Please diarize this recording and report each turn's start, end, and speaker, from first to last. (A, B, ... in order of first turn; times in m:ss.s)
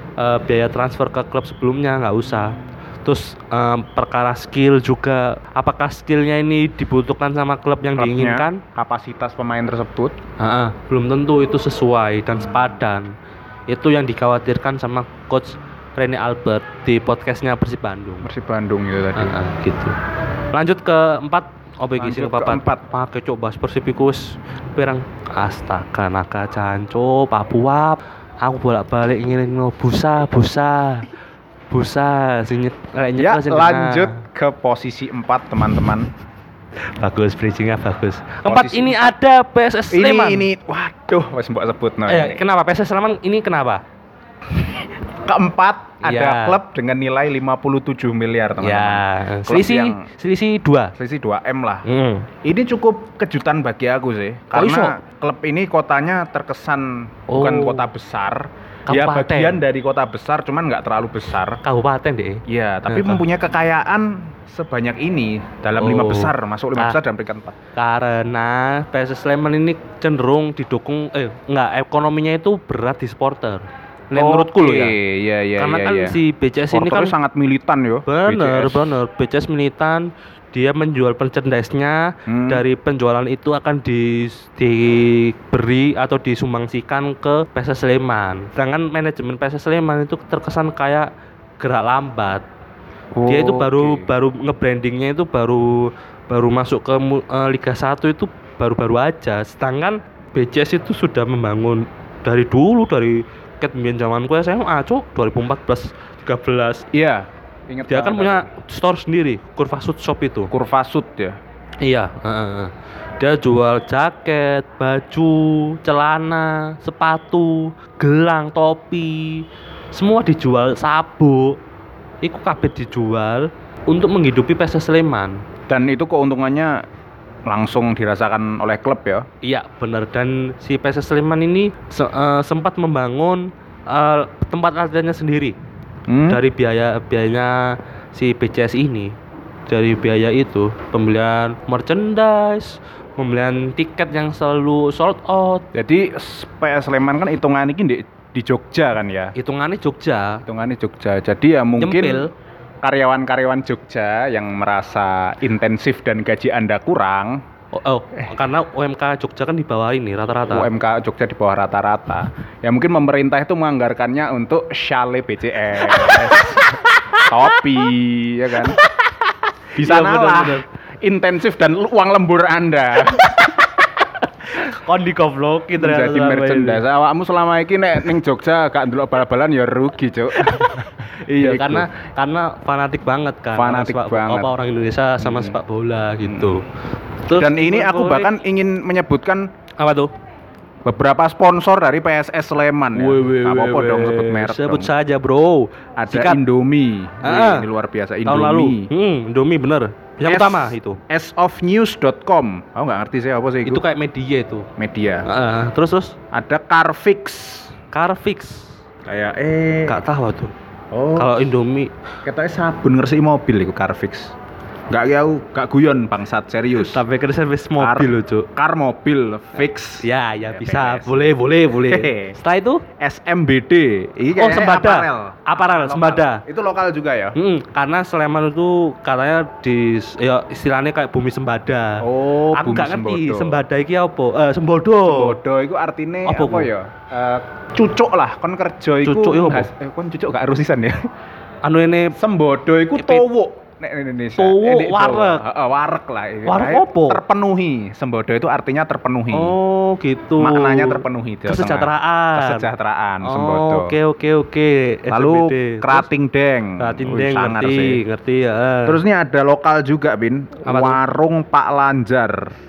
0:00.2-0:08.6 A
0:08.0-0:10.1 B
0:10.4-0:13.1 A
0:13.7-0:18.3 A
0:18.2-0:19.4 B
0:19.2-0:20.0 A
0:20.5-0:31.1 A
0:22.0-0:22.8 B
0:31.7-0:34.2 A
0:33.2-0:36.1 B
0:36.9-0:40.5 A
0:38.4-0:39.1 B
0:39.9-0:42.4 B
0:42.1-0:43.8 A
0:44.6-0:50.0 B
0:46.0-0:46.6 A
0:48.6-0:50.9 A
0:51.0-0:51.9 B
0:51.8-0:52.3 A
0:52.4-1:01.6 B
0:54.5-0:55.0 A
0:57.3-0:57.9 A
0:58.9-0:59.6 A
1:01.6-1:03.2 A
1:02.5-1:07.6 B
1:05.8-1:07.0 A
1:07.8-1:15.0 A
1:14.1-1:16.2 B
1:15.6-1:17.1 A
1:16.7-1:19.0 B
1:18.1-1:31.1 A
1:22.3-1:22.6 B
1:31.6-1:32.5 A
1:33.1-1:34.1 B
1:33.2-1:46.8 A
1:46.9-1:48.5 B
1:47.9-1:50.5 A
1:50.5-1:51.4 B
1:51.8-2:01.6 A
2:02.2-2:05.4 A
2:05.7-2:06.8 B
2:07.5-2:09.2 B
2:09.4-2:15.6 A
2:16.1-2:16.4 B
2:16.3-2:19.1 A
2:19.7-2:25.6 A
2:25.7-2:29.3 B
2:29.4-2:30.4 A
2:30.5-2:32.3 B
2:31.8-2:32.3 A
2:32.8-2:37.4 B
2:37.7-2:40.7 A
2:40.5-2:48.8 B
2:49.8-2:50.6 A
2:49.8-2:54.0 B
2:54.5-2:56.8 A
2:55.8-3:01.9 B
3:00.3-3:06.7 A
3:03.5-3:04.5 B
3:05.2-3:05.6 B
3:06.2-3:06.6 B
3:07.2-3:08.3 A
3:07.3-3:09.5 B
3:09.8-3:10.1 A
3:10.8-3:14.9 B
3:13.0-3:16.4 A
3:16.0-3:18.9 B
3:17.2-3:17.6 A
3:18.2-3:21.0 A
3:20.2-3:23.8 B
3:23.6-3:24.7 A
3:24.8-3:25.3 B
3:25.2-3:26.2 A
3:26.3-3:27.7 B
3:27.9-3:28.8 A
3:29.1-3:30.0 B
3:29.9-3:30.5 A
3:30.9-3:31.5 B
3:31.2-3:31.9 A
3:32.2-3:34.4 B
3:34.9-3:37.0 B
3:36.8-3:38.5 A
3:37.8-3:41.3 B
3:40.0-3:42.8 A
3:41.8-3:42.4 B
3:43.0-3:47.4 B
3:44.4-3:46.4 A
3:47.4-3:55.4 A
3:52.0-3:53.6 B
3:55.1-4:01.0 B
3:56.2-3:56.7 A
3:59.0-3:59.7 A
4:01.6-4:02.2 A
4:02.2-4:09.5 B
4:03.0-4:03.2 A
4:04.4-4:05.4 A
4:06.4-4:07.2 A
4:09.3-4:12.7 A
4:10.4-4:14.0 B
4:13.2-4:16.1 A
4:15.1-4:18.0 B
4:16.8-4:19.0 A
4:18.9-4:22.5 B
4:20.6-4:21.0 A